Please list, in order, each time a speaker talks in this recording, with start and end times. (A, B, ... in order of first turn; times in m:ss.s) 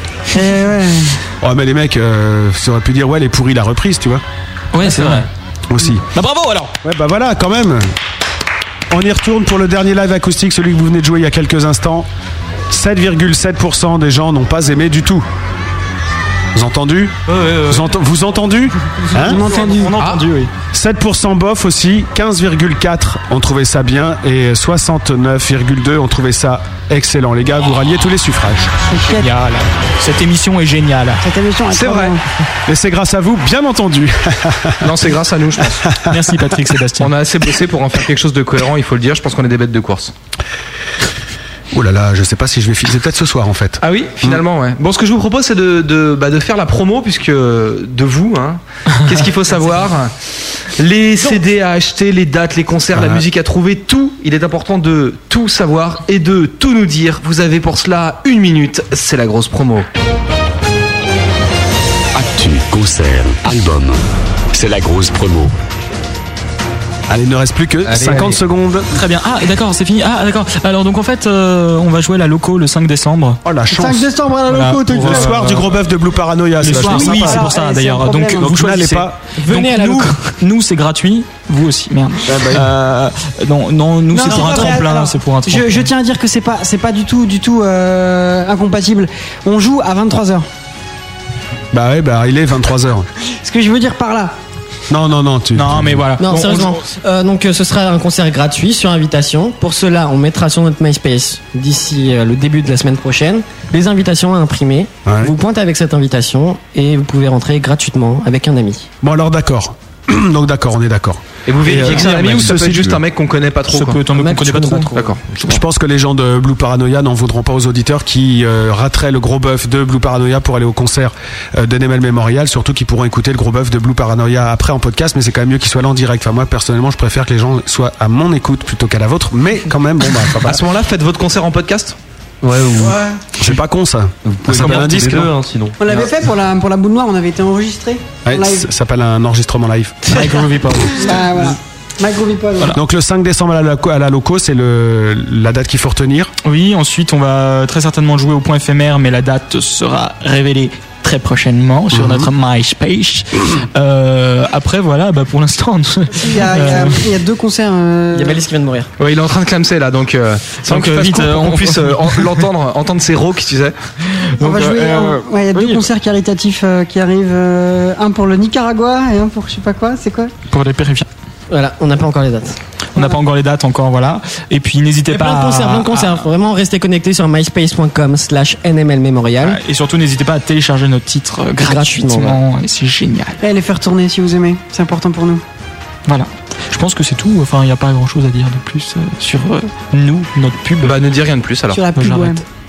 0:00.3-0:01.2 A
0:01.4-0:04.2 B
0:04.7-0:05.3 C
0:04.8-0:06.1 B
0:06.1-0:06.7 C
0:06.8-0:07.9 B
0:08.9-0:12.1 B
0:12.7-0:15.3 B
0:16.5-0:19.4 B
0:19.1-0:20.5 C
0:19.2-0:20.0 A
0:20.7-0:28.7 B
0:28.9-0:29.3 A
0:29.1-0:31.2 C
0:31.2-0:32.2 A
0:31.7-0:32.2 D
0:32.6-0:35.0 B
0:34.8-0:35.9 D
0:35.6-0:36.6 B
0:36.1-0:37.1 C
0:37.0-0:40.1 D
0:41.7-0:44.4 B
0:43.8-0:59.9 D
0:52.9-0:53.2 B
1:02.1-1:04.0 E
1:04.5-1:05.5 E
1:07.1-1:08.9 B
1:07.8-1:08.4 F
1:08.9-1:13.4 C
1:13.4-1:14.1 B
1:13.7-1:15.5 A
1:14.5-1:15.7 C
1:14.9-1:17.6 B
1:16.6-1:25.9 C
1:16.7-1:18.6 A
1:18.3-1:19.2 B
1:19.4-1:20.3 G
1:22.3-1:22.7 B
1:24.1-1:30.5 A
1:24.3-1:24.7 G
1:31.7-1:33.1 B
1:33.4-1:34.4 A
1:34.9-1:36.1 B
1:35.6-1:36.8 C
1:36.2-1:48.9 G
1:45.1-1:45.3 B
1:49.0-1:53.0 B
1:51.4-1:54.0 D
1:51.9-1:52.4 C
1:53.7-1:55.6 C
1:54.1-1:55.0 G
1:54.9-1:55.2 D
1:55.4-2:10.6 B
2:10.4-2:12.0 D
2:12.4-2:13.0 F
2:13.4-2:15.3 B
2:14.3-2:16.1 F
2:15.8-2:18.7 A
2:18.2-2:20.1 B
2:20.1-2:21.4 C
2:21.0-2:22.8 A
2:22.7-2:26.3 B
2:26.4-2:37.0 C
2:31.9-2:32.3 B
2:36.1-2:38.4 A
2:38.1-2:38.9 G
2:39.0-2:43.8 D
2:40.6-2:42.4 C
2:44.0-2:45.9 C
2:44.4-2:50.3 A
2:50.5-2:51.1 C
2:51.5-2:52.6 G
2:52.9-2:56.3 C
2:55.1-2:59.6 G
2:59.4-3:03.4 C
3:01.6-3:02.4 G
3:03.4-3:05.4 A
3:06.1-3:11.0 C
3:10.8-3:11.8 D
3:11.7-3:12.4 A
3:11.9-3:12.4 C